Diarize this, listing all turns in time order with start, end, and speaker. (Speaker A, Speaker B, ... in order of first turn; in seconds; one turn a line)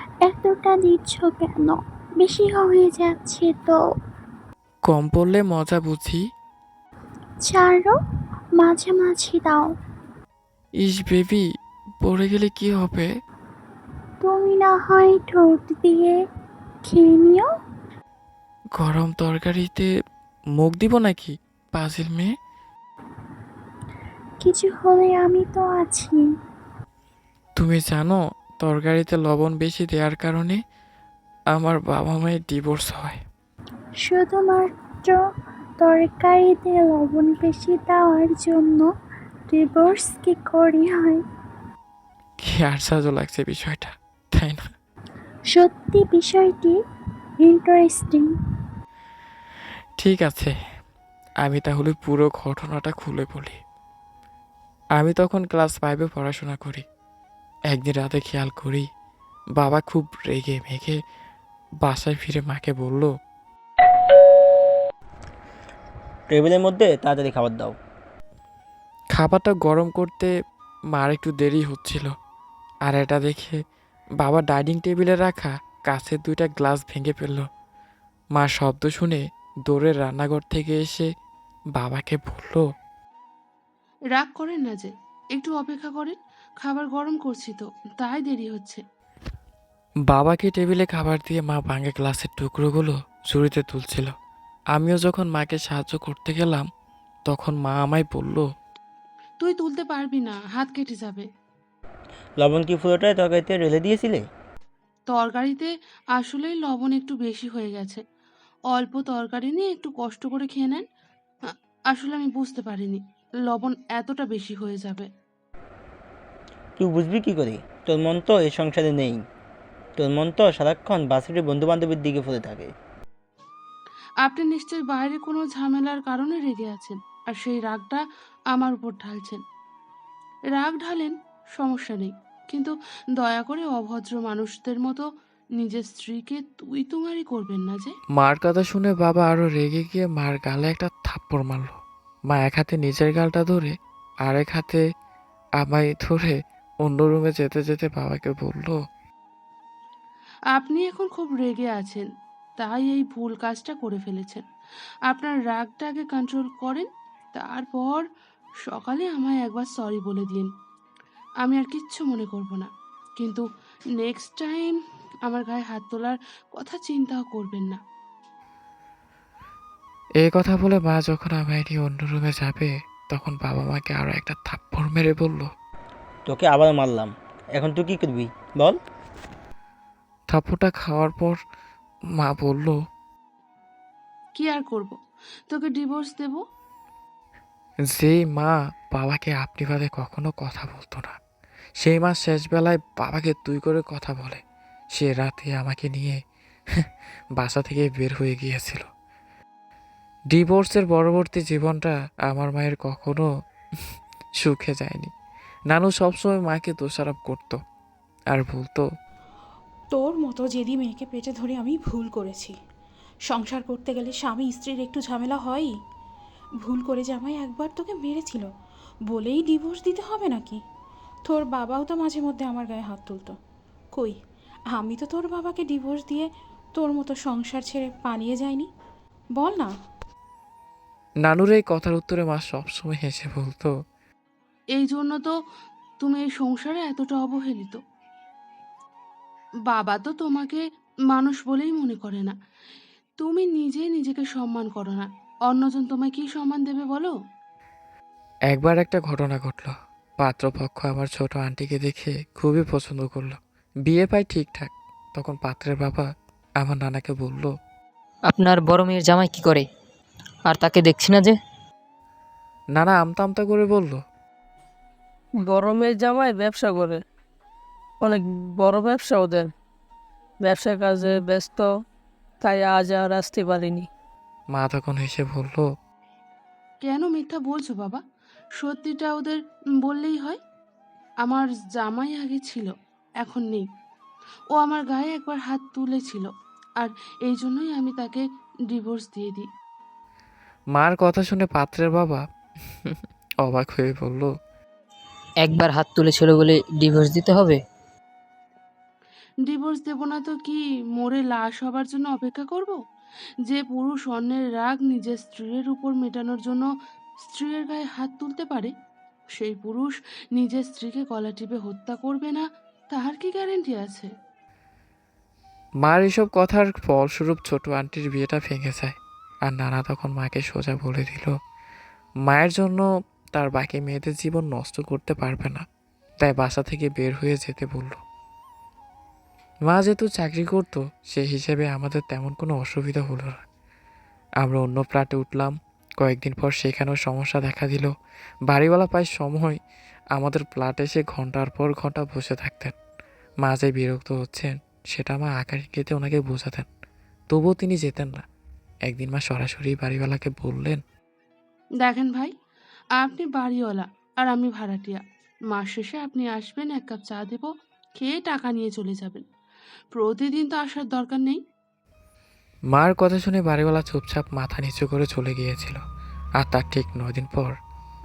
Speaker A: 0.3-3.8
Speaker B: 4.9-6.2
Speaker A: 7.4-7.9
Speaker A: 8.6-9.7
Speaker B: 10.8-11.4
Speaker B: 12.0-13.1
Speaker A: 14.2-16.2
Speaker A: 16.9-17.5
Speaker B: 18.8-19.9
Speaker B: 20.6-22.3
Speaker A: 24.4-26.2
Speaker B: 27.6-30.6
Speaker B: 31.5-33.2
Speaker A: 34.1-35.2
Speaker A: 35.8-38.9
Speaker A: 39.5-41.2
Speaker B: 42.4-44.6
Speaker A: 45.5-46.8
Speaker A: 47.4-48.3
Speaker B: 50.0-50.5
Speaker B: 51.4-53.6
Speaker B: 55.0-56.8
Speaker B: 57.7-58.9
Speaker B: 59.6-61.0
Speaker B: 61.8-63.1
Speaker C: 66.3-67.8
Speaker B: 69.2-70.3
Speaker B: 70.9-72.1
Speaker B: 72.9-73.6
Speaker B: 74.2-77.5
Speaker B: 78.4-81.1
Speaker B: 81.8-82.6
Speaker D: 84.1-88.8
Speaker B: 90.1-94.1
Speaker B: 94.8-96.7
Speaker B: 97.3-98.5
Speaker D: 99.4-101.3
Speaker C: 102.4-104.2
Speaker D: 105.1-108.0
Speaker D: 108.7-110.8
Speaker D: 111.5-115.1
Speaker C: 116.8-119.2
Speaker C: 120.0-122.7
Speaker D: 124.2-129.4
Speaker D: 130.5-135.1
Speaker D: 135.6-137.9
Speaker B: 138.2-141.8
Speaker B: 142.3-143.7
Speaker B: 144.3-144.8
Speaker B: 145.6-148.8
Speaker D: 150.5-152.1
Speaker D: 152.6-154.4
Speaker D: 155.1-158.0
Speaker D: 158.7-160.5
Speaker D: 161.4-163.4
Speaker D: 164.0-164.8
Speaker D: 165.3-167.8
Speaker B: 170.2-175.5
Speaker C: 176.3-178.8
Speaker B: 180.3-181.4
Speaker B: 182.2-182.8
Speaker D: 184.4-185.0
Speaker D: 185.5-186.4
Speaker B: 187.9-191.2
Speaker B: 191.8-194.4
Speaker B: 194.9-196.2
Speaker B: 197.4-198.9
Speaker B: 200.3-203.3
Speaker B: 204.4-205.1
Speaker B: 205.7-207.6
Speaker B: 208.3-208.9
Speaker E: 209.9-212.5
Speaker E: 213.3-215.7
Speaker E: 216.6-218.5
Speaker E: 219.1-220.6
Speaker E: 221.3-223.4
Speaker E: 224.7-228.7
Speaker E: 229.4-229.7
Speaker B: 231.2-233.7
Speaker D: 234.8-235.3
Speaker D: 236.0-237.8
Speaker D: 239.7-242.3
Speaker D: 243.2-247.1
Speaker B: 248.5-256.1
Speaker B: 256.6-257.5
Speaker F: 258.3-259.7
Speaker F: 260.5-261.4
Speaker B: 262.8-264.0
Speaker G: 265.4-267.0
Speaker G: 268.0-269.5
Speaker G: 270.4-271.7
Speaker G: 272.4-273.9
Speaker B: 274.6-275.6
Speaker D: 276.8-278.0
Speaker D: 278.6-280.4
Speaker D: 281.2-282.7
Speaker D: 283.2-283.7
Speaker D: 284.5-289.5
Speaker B: 290.8-292.2
Speaker B: 292.9-294.3
Speaker F: 295.4-297.6
Speaker D: 299.5-302.8
Speaker D: 303.5-306.7
Speaker D: 307.3-308.7
Speaker D: 309.4-314.1
Speaker B: 315.9-319.0
Speaker B: 319.5-321.3
Speaker B: 322.3-322.8
Speaker B: 323.4-325.6
Speaker B: 326.2-328.0
Speaker B: 329.7-333.4
Speaker B: 334.4-337.9
Speaker B: 338.5-339.6
Speaker B: 340.2-342.7
Speaker B: 343.5-346.7
Speaker B: 347.3-348.2
Speaker B: 348.9-350.8
Speaker D: 351.8-352.3
Speaker D: 353.0-359.2
Speaker D: 359.9-361.4
Speaker B: 362.7-365.8
Speaker B: 366.4-367.6